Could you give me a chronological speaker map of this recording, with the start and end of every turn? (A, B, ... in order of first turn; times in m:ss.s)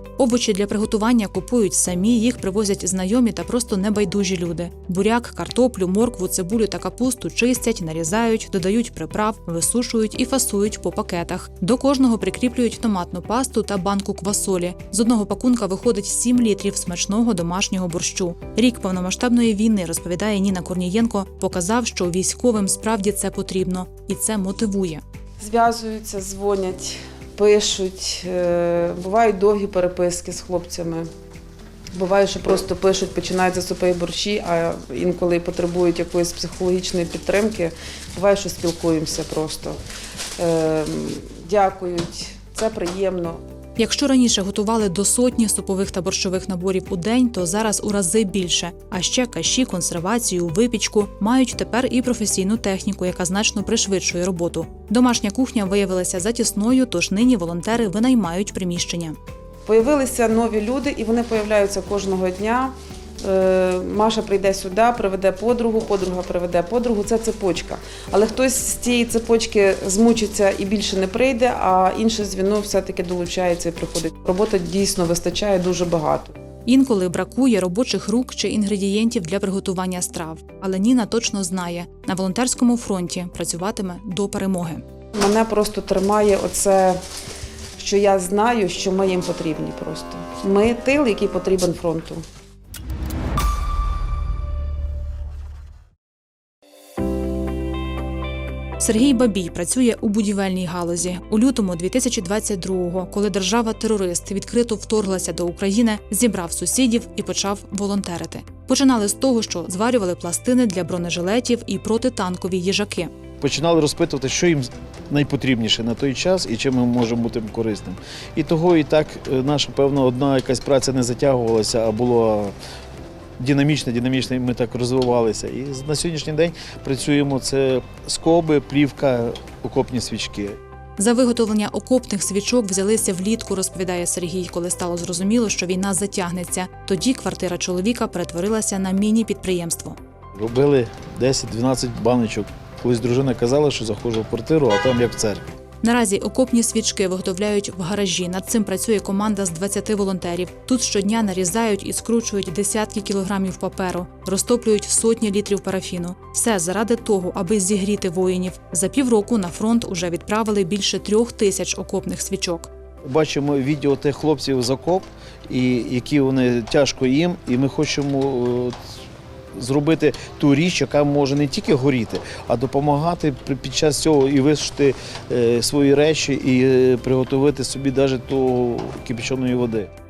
0:00.2-0:25.0 A
0:25.4-0:31.1 B
0:31.9-0:39.8 B
0:40.4-0:43.4 B
0:43.8-0:59.2 A
0:59.7-1:16.4 B
1:16.7-1:24.8 A
1:25.2-1:27.0 B
1:27.8-1:32.2 B
1:38.8-1:53.1 A
1:53.4-2:02.5 C
2:03.4-2:10.6 C
2:11.0-2:20.0 A
2:20.4-2:25.4 C
2:25.8-2:42.7 A
2:43.0-2:48.8 C
2:49.6-2:59.9 C